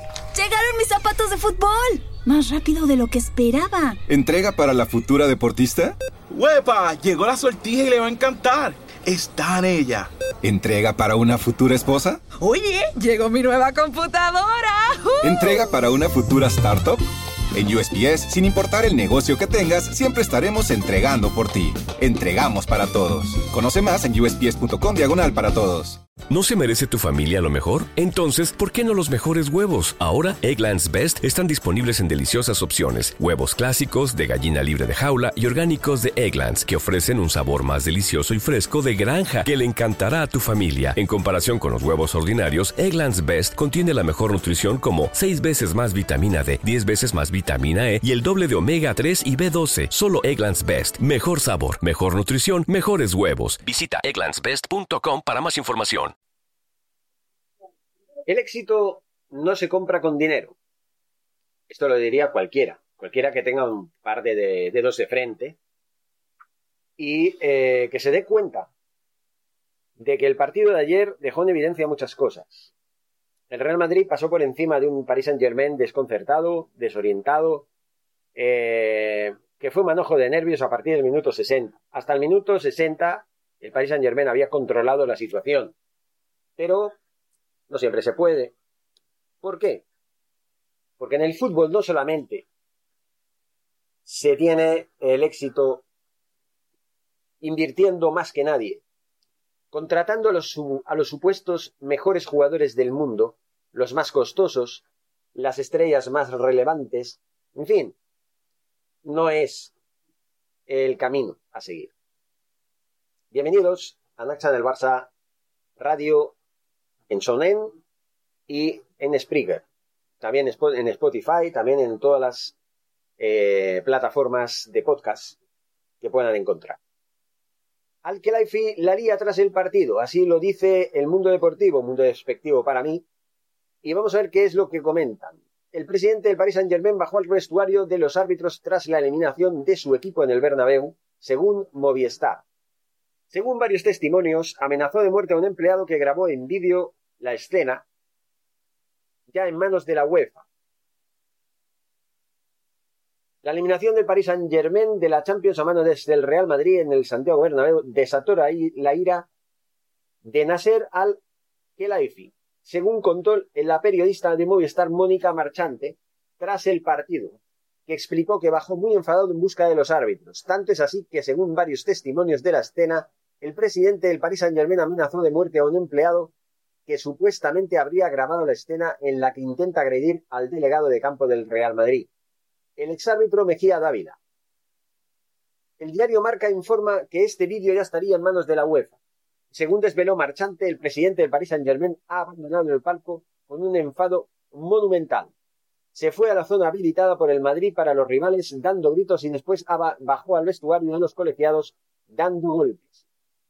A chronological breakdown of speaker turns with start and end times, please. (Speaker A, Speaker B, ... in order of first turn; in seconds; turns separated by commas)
Speaker A: 0.3-4.0, Speaker B: 4.1-6.0, Speaker C: 6.3-10.1, Speaker B: 10.4-12.2, Speaker A: 12.4-15.6, Speaker B: 15.2-17.0, Speaker B: 17.5-26.0, Speaker D: 26.3-56.1, Speaker E: 58.3-60.6, Speaker E: 61.7-65.6, Speaker E: 67.0-68.7, Speaker E: 70.0-72.7, Speaker E: 73.5-77.7, Speaker E: 78.3-85.7, Speaker E: 86.6-87.0, Speaker E: 87.7-88.5, Speaker E: 89.4-89.8, Speaker E: 91.0-92.5, Speaker E: 94.0-95.8, Speaker E: 97.4-98.8, Speaker E: 99.7-107.9, Speaker E: 109.0-109.7, Speaker E: 110.7-111.9, Speaker E: 113.3-115.1, Speaker E: 115.8-116.3, Speaker E: 117.1-117.7, Speaker E: 118.5-119.6, Speaker E: 120.2-122.5, Speaker E: 123.2-125.4, Speaker E: 126.0-126.8, Speaker E: 128.0-133.1, Speaker E: 133.8-142.4, Speaker E: 143.3-147.8, Speaker E: 149.3-150.4, Speaker E: 153.4-159.3, Speaker E: 160.2-161.2, Speaker E: 161.8-176.3, Speaker E: 176.8-182.1, Speaker E: 182.8-184.2, Speaker E: 185.8-189.0, Speaker E: 189.5-195.3, Speaker E: 195.9-203.0